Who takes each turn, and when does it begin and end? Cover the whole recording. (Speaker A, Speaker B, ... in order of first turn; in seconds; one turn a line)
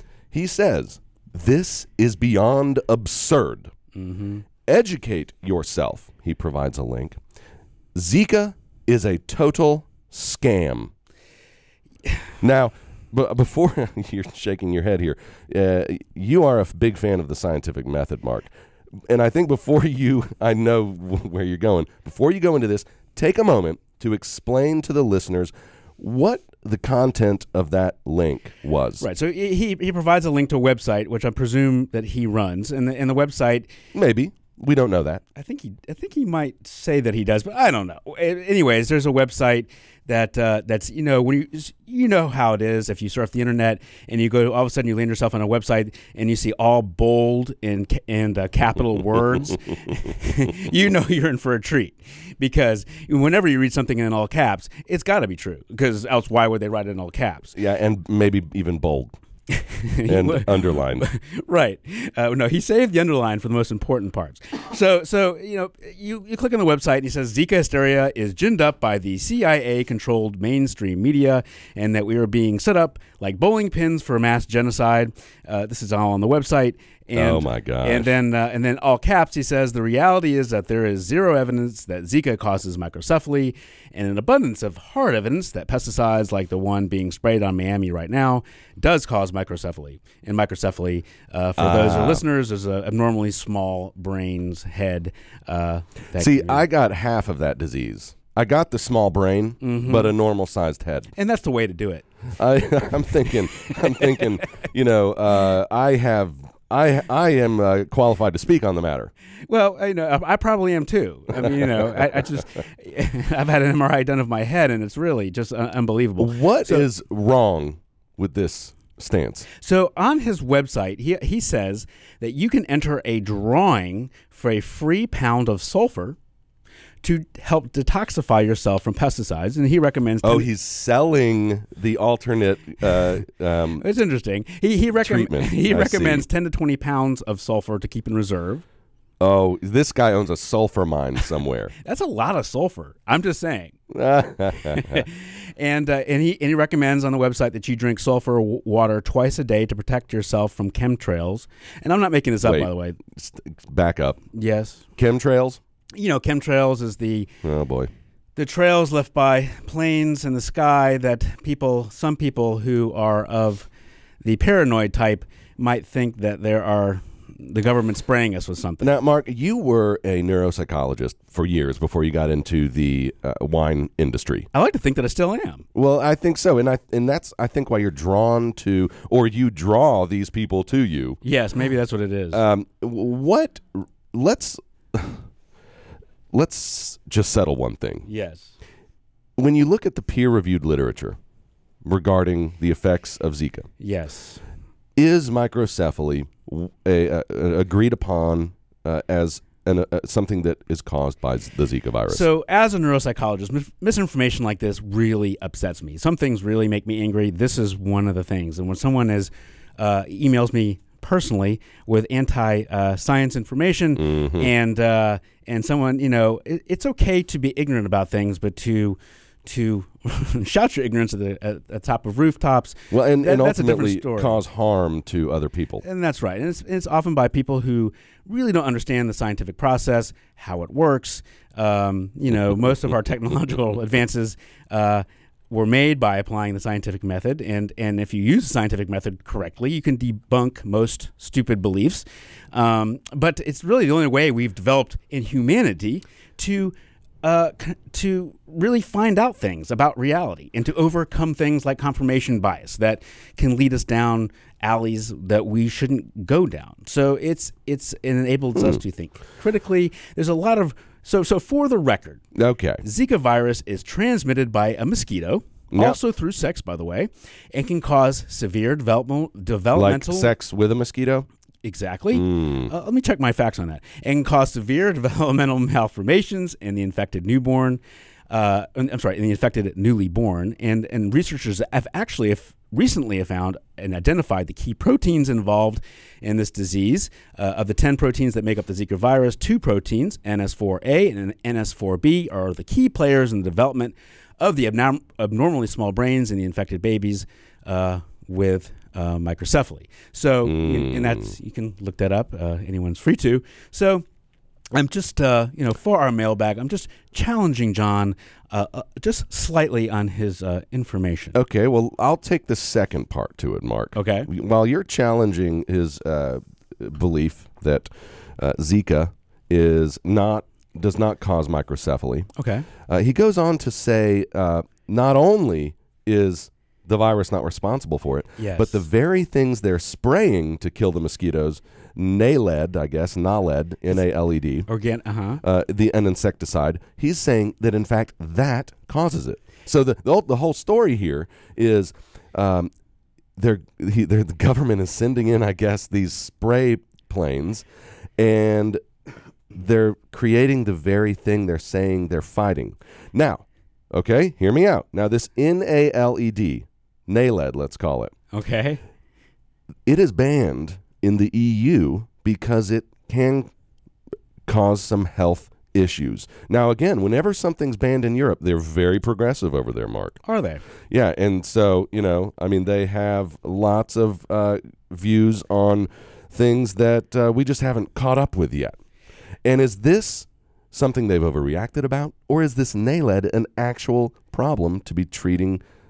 Speaker A: 0.3-3.7
Speaker B: 3.9-4.4
Speaker A: 4.7-7.2
Speaker A: 7.9-10.9
Speaker A: 12.4-18.5
Speaker A: 19.1-29.0
Speaker B: 29.0-33.7
Speaker A: 33.9-35.2
Speaker B: 35.4-57.5
Speaker A: 57.5-59.1
Speaker B: 59.5-96.7
Speaker A: 60.1-61.1
Speaker A: 77.1-78.1
Speaker A: 91.6-92.2
Speaker A: 96.2-101.1
Speaker B: 99.6-100.1
Speaker B: 101.2-102.0
Speaker A: 102.4-109.1
Speaker B: 109.5-116.9
Speaker A: 116.2-119.5
Speaker B: 119.6-126.2
Speaker B: 127.0-130.5
Speaker A: 130.2-133.8
Speaker B: 133.8-138.6
Speaker A: 135.0-136.2
Speaker A: 139.2-141.7
Speaker B: 141.8-143.7
Speaker A: 143.9-145.0
Speaker B: 144.7-153.0
Speaker A: 152.4-154.2
Speaker B: 154.3-154.8
Speaker A: 155.0-155.6
Speaker B: 155.9-157.3
Speaker A: 157.4-157.9
Speaker B: 158.3-163.7
Speaker B: 164.2-168.9
Speaker A: 168.8-174.5
Speaker B: 174.5-175.6
Speaker A: 175.7-181.2
Speaker B: 181.2-182.4
Speaker A: 182.3-185.2
Speaker A: 186.3-188.1
Speaker B: 188.1-188.5
Speaker A: 189.4-191.2
Speaker A: 191.8-193.7
Speaker B: 193.8-194.4
Speaker A: 194.9-202.3
Speaker B: 202.1-224.4
Speaker A: 214.0-214.5
Speaker A: 222.9-225.8
Speaker B: 225.8-262.2
Speaker A: 262.3-262.8
Speaker B: 262.8-270.3
Speaker A: 265.7-266.0
Speaker A: 269.7-271.3
Speaker B: 271.6-304.0
Speaker A: 272.1-272.7
Speaker A: 300.4-301.3
Speaker B: 304.7-311.4
Speaker A: 311.3-322.3
Speaker B: 313.9-314.3
Speaker B: 322.4-322.7
Speaker A: 322.9-334.7
Speaker B: 328.4-328.8
Speaker B: 334.7-335.4
Speaker A: 335.4-342.7
Speaker A: 343.4-347.6
Speaker A: 348.2-348.8
Speaker A: 349.5-358.1
Speaker B: 358.3-358.8
Speaker A: 359.9-363.5
Speaker A: 364.4-370.2
Speaker B: 370.2-370.6
Speaker A: 370.9-378.8
Speaker A: 379.4-385.6